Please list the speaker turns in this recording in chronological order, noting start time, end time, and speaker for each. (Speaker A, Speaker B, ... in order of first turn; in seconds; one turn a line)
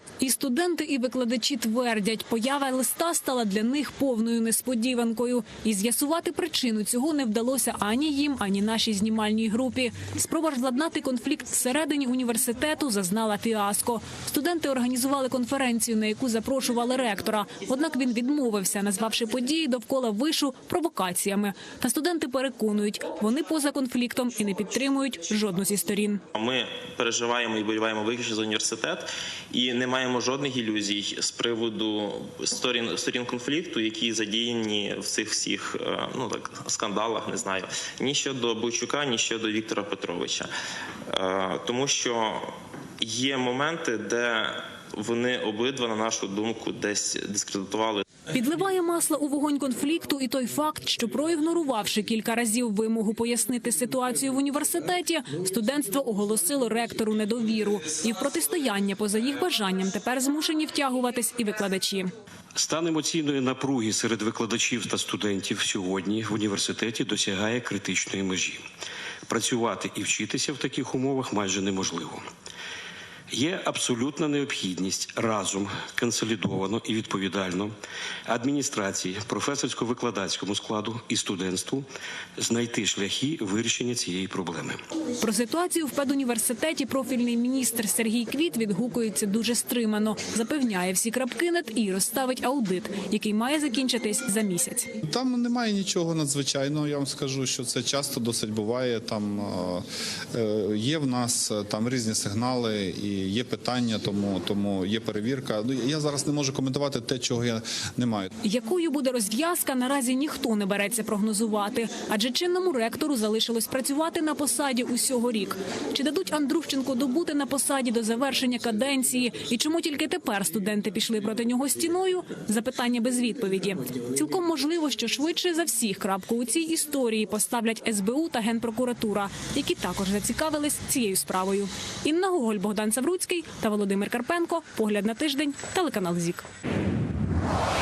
Speaker A: 0.2-26.2
Speaker B: 26.3-40.5
Speaker B: 41.1-48.0
Speaker A: 48.3-62.1
Speaker C: 62.5-68.6
Speaker C: 69.3-72.2
Speaker C: 73.3-77.7
Speaker C: 78.3-81.9
Speaker C: 82.4-84.8
Speaker A: 85.2-94.9
Speaker D: 95.0-108.3
Speaker A: 108.4-136.4